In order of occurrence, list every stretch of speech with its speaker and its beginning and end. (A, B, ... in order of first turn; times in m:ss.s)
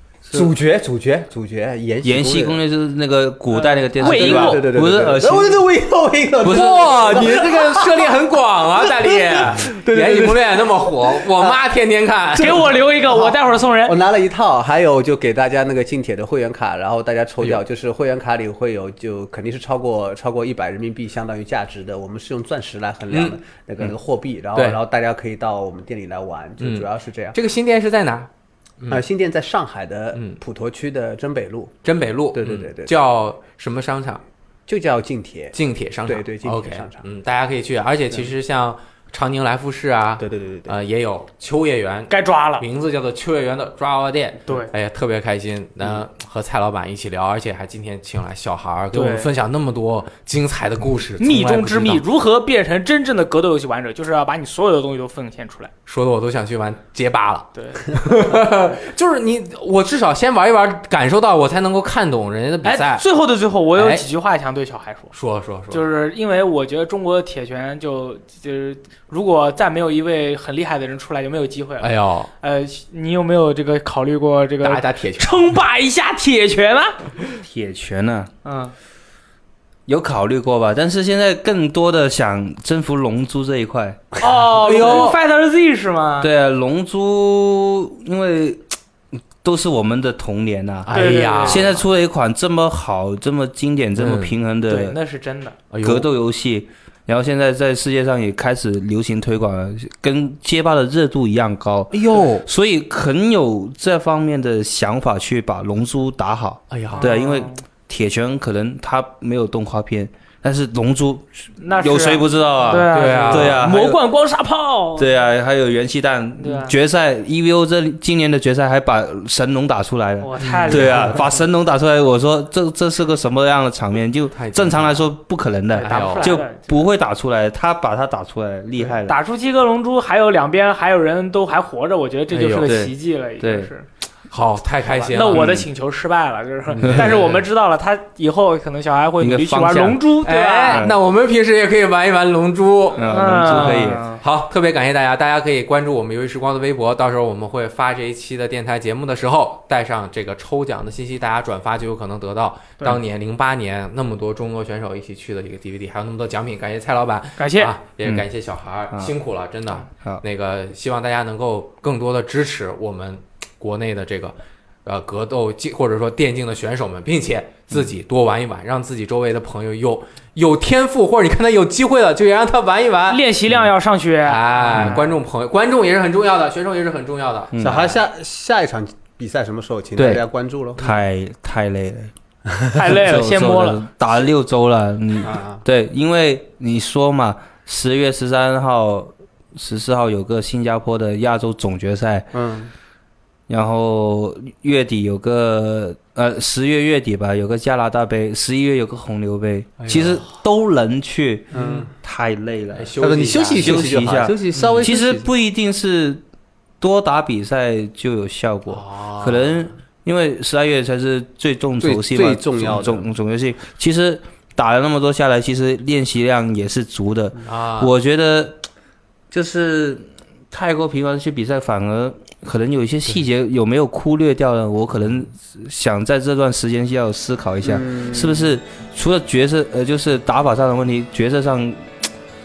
0:00.3-0:02.6 A
0:02.0-0:05.7 B
0:03.6-0:08.2 A
0:04.0-0:04.7 C
0:06.4-0:07.4 B
0:06.4-0:12.8 D
0:08.8-0:11.6 A
0:12.4-0:14.0 C
0:12.4-0:27.4 A
0:23.1-0:23.9 D
0:24.5-0:24.8 D
0:26.6-0:29.0 D
0:28.9-0:31.8 A
0:30.1-0:30.4 D
0:31.8-0:34.2 D
0:32.3-0:32.9 A
0:34.7-0:37.0 A
0:35.5-0:52.0 D
0:40.2-0:40.8 A
0:42.1-0:42.6 C
0:48.9-0:49.3 C
0:51.2-0:55.7 C
0:55.9-1:03.0 D
0:57.5-0:58.2 C
1:02.6-1:05.1 C
1:03.7-1:04.0 D
1:05.1-1:05.8 D
1:05.7-1:17.2 C
1:11.8-1:12.3 D
1:14.6-1:15.5 D
1:17.4-1:18.3 B
1:18.4-1:18.7 C
1:19.9-1:24.2 B
1:24.2-1:26.3 C
1:24.6-1:25.2 D
1:26.2-1:28.7 B
1:29.4-1:35.0 B
1:30.8-1:31.8 D
1:30.9-1:31.7 C
1:34.0-1:34.3 D
1:34.6-1:35.6 C
1:35.7-1:36.0 D
1:35.8-1:54.0 B
1:41.9-1:42.4 D
1:46.7-1:47.1 D
1:46.9-1:47.6 C
1:51.6-1:55.2 C
1:52.7-1:53.6 D
1:55.0-2:09.2 B
1:56.4-1:56.7 C
2:00.2-2:01.4 C
2:00.4-2:01.1 D
2:04.3-2:05.1 D
2:05.7-2:06.8 C
2:05.8-2:06.4 D
2:09.0-2:13.9 C
2:12.3-2:12.7 D
2:12.6-2:13.7 B
2:14.3-2:15.4 D
2:14.9-2:20.8 C
2:15.3-2:15.7 B
2:16.7-2:17.4 D
2:16.8-2:17.1 B
2:19.2-2:20.0 B
2:20.2-2:53.7 D
2:20.7-2:21.0 B
2:22.9-2:24.2 B
2:23.0-2:24.0 C
2:37.4-2:37.7 C
2:53.1-2:55.2 C
2:54.2-2:58.0 D
2:57.5-2:57.9 B
2:57.6-3:00.8 A
3:00.0-3:02.1 B
3:02.7-3:03.8 C
3:02.9-3:12.4 B
3:05.2-3:05.6 A
3:12.3-3:12.7 A
3:13.5-3:22.9 B
3:19.8-3:20.3 D
3:21.5-3:21.9 D
3:21.5-3:21.9 A
3:22.7-3:24.0 D
3:23.0-3:25.3 A
3:23.5-3:26.2 B
3:24.5-3:24.9 D
3:26.8-3:38.6 B
3:28.7-3:29.7 D
3:31.8-3:33.0 A
3:32.6-3:33.0 D
3:37.4-3:37.9 D
3:39.3-3:51.9 B
3:47.6-3:48.5 A